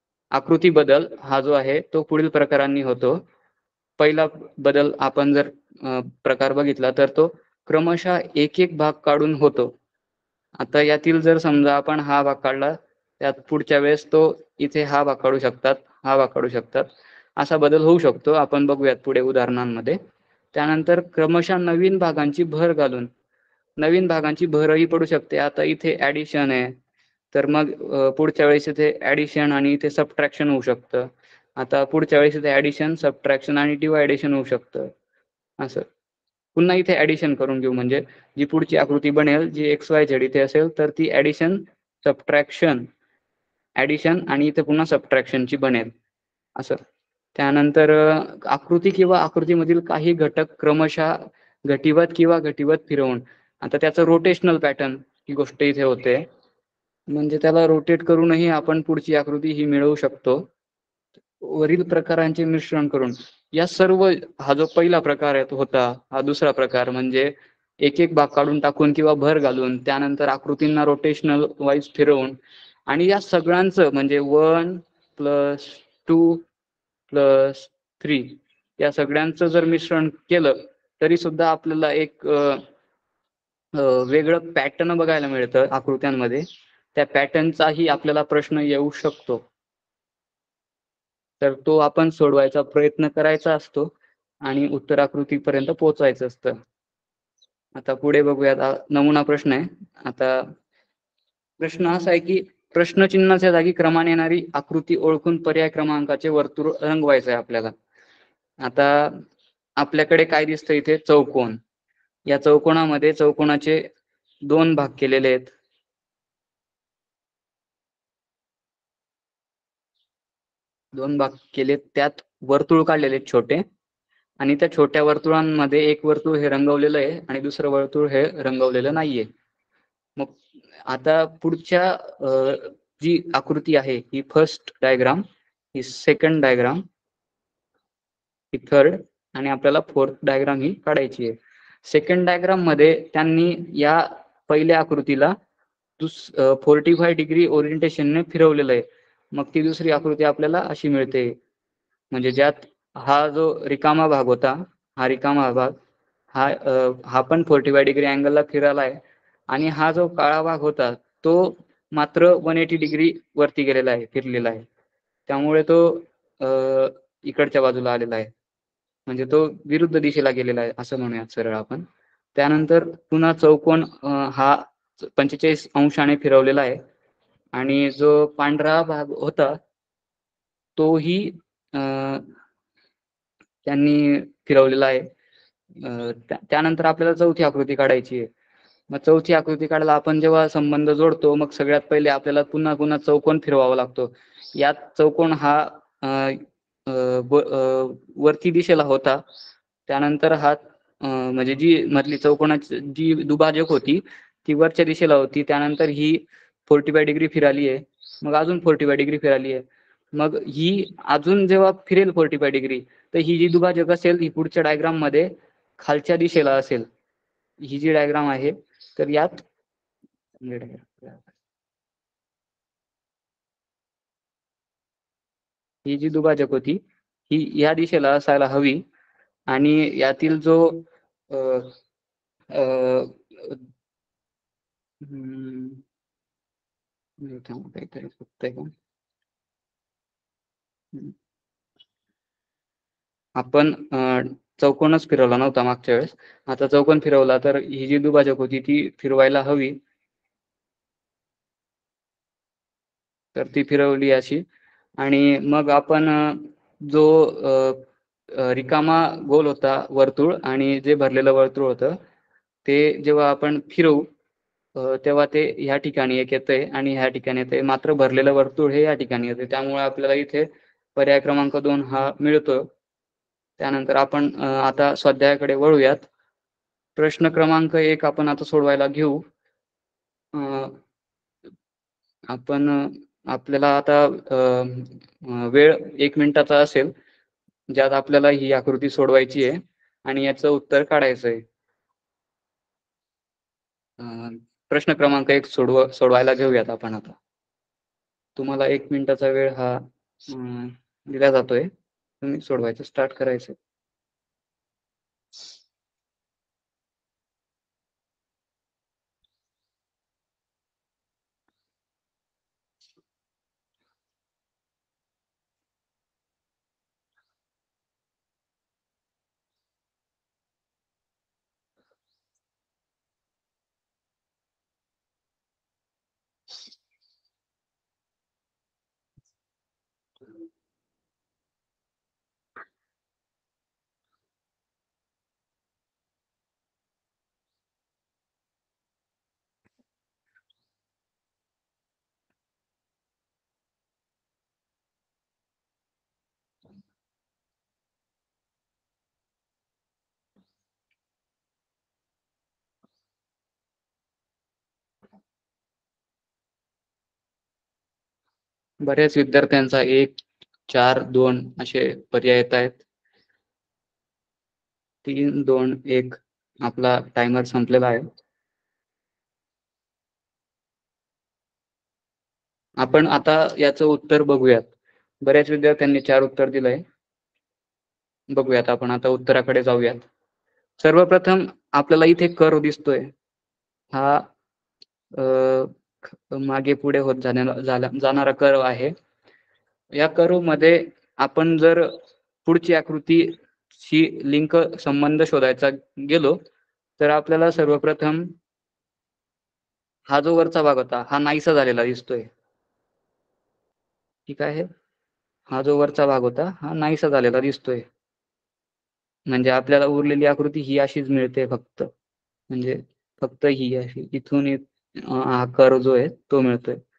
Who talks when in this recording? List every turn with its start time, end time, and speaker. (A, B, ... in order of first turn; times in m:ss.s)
0:00.4-0:03.2 A
0:04.0-0:09.7 A
0:10.6-0:20.0 A
0:20.5-0:23.1 A
0:23.8-0:26.7 A
0:27.3-0:34.9 A
0:35.6-0:35.8 A
0:36.6-0:42.9 A
0:43.8-0:45.9 A
0:47.4-0:56.2 A
0:57.1-1:00.5 A
1:01.4-1:12.4 A
1:12.9-1:16.4 A
1:17.1-1:22.6 A
1:23.8-1:26.4 A
1:27.0-1:29.4 A
1:31.4-1:33.9 A
1:34.4-1:36.6 A
1:37.8-1:40.5 A
1:41.6-1:47.7 A
1:48.6-1:49.2 A
1:49.8-1:51.6 A
1:52.3-1:53.8 A
1:54.5-1:55.5 A
2:00.9-2:03.6 A
2:04.4-2:09.3 A
2:10.9-2:15.2 A
2:15.8-2:16.8 A
2:18.5-2:25.4 A
2:26.0-2:31.4 A
2:32.1-2:35.8 A
2:36.3-2:39.0 A
2:39.5-2:44.7 A
2:45.3-2:48.3 A
2:49.1-2:56.8 A
2:57.6-2:59.6 A
3:00.8-3:02.3 A
3:03.6-3:05.1 A
3:05.8-3:08.3 A
3:08.9-3:19.2 A
3:19.9-3:36.9 A
3:37.6-3:39.4 A
3:40.4-3:41.2 A
3:45.8-3:48.8 A
3:49.5-3:51.8 A
3:52.5-3:53.6 A
3:55.0-3:55.8 A
3:57.2-3:58.7 A
4:03.4-4:09.8 A
4:13.4-4:14.4 A
4:15.0-4:22.0 A
4:22.6-4:24.1 A
4:24.8-4:32.6 A
4:33.6-4:36.1 A
4:37.0-4:39.2 A
4:40.3-4:40.8 A
4:42.3-4:46.9 A
4:47.7-4:51.4 A
4:54.0-4:57.2 A
4:58.4-5:01.7 A
5:02.2-5:03.6 A
5:58.8-6:00.2 A
6:00.7-6:02.8 A
6:05.0-6:08.0 A
6:12.8-6:14.7 A
6:15.2-6:16.8 A
6:18.3-6:20.1 A
6:20.8-6:23.1 A
6:23.9-6:24.2 A
6:25.2-6:25.8 A
6:26.3-6:28.9 A
6:30.0-6:31.9 A
6:32.4-6:36.4 A
6:37.0-6:38.4 A
6:40.1-6:42.3 A
6:44.3-6:44.7 A
6:45.5-6:47.8 A
6:49.3-6:51.9 A
6:52.5-6:56.8 A